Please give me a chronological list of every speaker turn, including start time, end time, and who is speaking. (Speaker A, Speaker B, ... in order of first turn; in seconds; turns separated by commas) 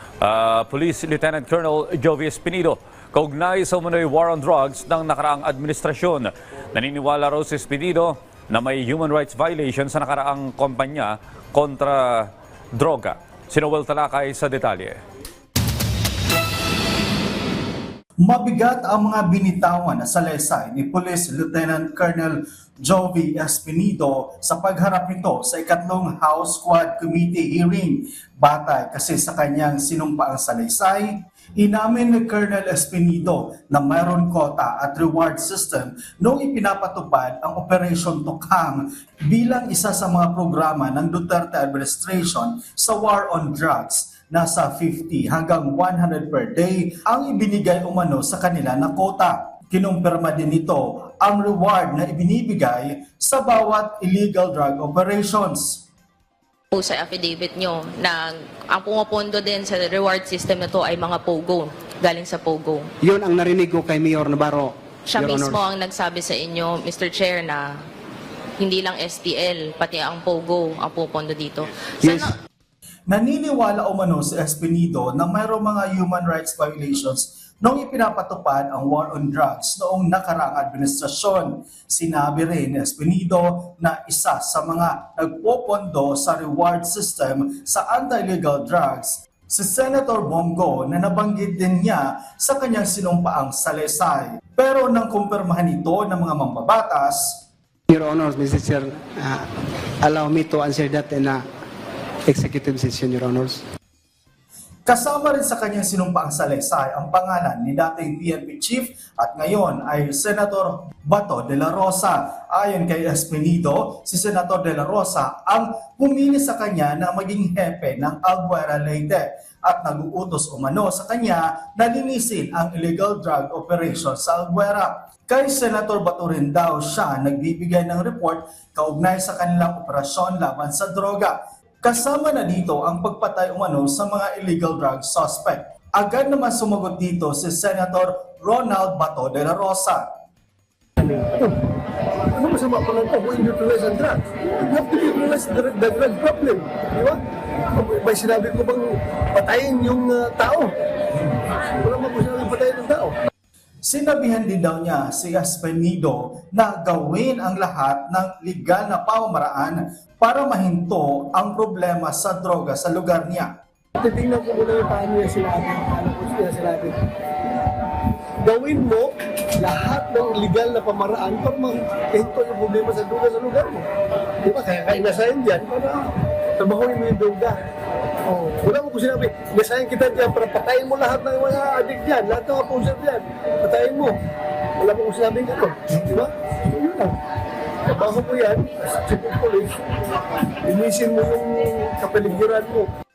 Speaker A: 0.2-15.0, Speaker B: 18.2-55.9, Speaker C: 56.7-62.8, Speaker D: 63.0-65.6, Speaker C: 65.1-67.6, Speaker C: 68.6-72.3, Speaker D: 72.0-72.3, Speaker B: 73.1-97.4, Speaker D: 97.9-99.5, Speaker D: 100.0-101.4, Speaker D: 102.3-103.6, Speaker B: 104.8-140.1, Speaker E: 141.0-141.6, Speaker E: 142.3-147.2, Speaker E: 147.7-150.7, Speaker E: 151.8-153.1, Speaker B: 153.8-163.6, Speaker E: 164.0-166.9, Speaker E: 168.4-173.9, Speaker E: 174.4-177.6, Speaker E: 178.3-184.2, Speaker E: 184.8-187.1, Speaker E: 187.8-189.8, Speaker E: 190.6-192.9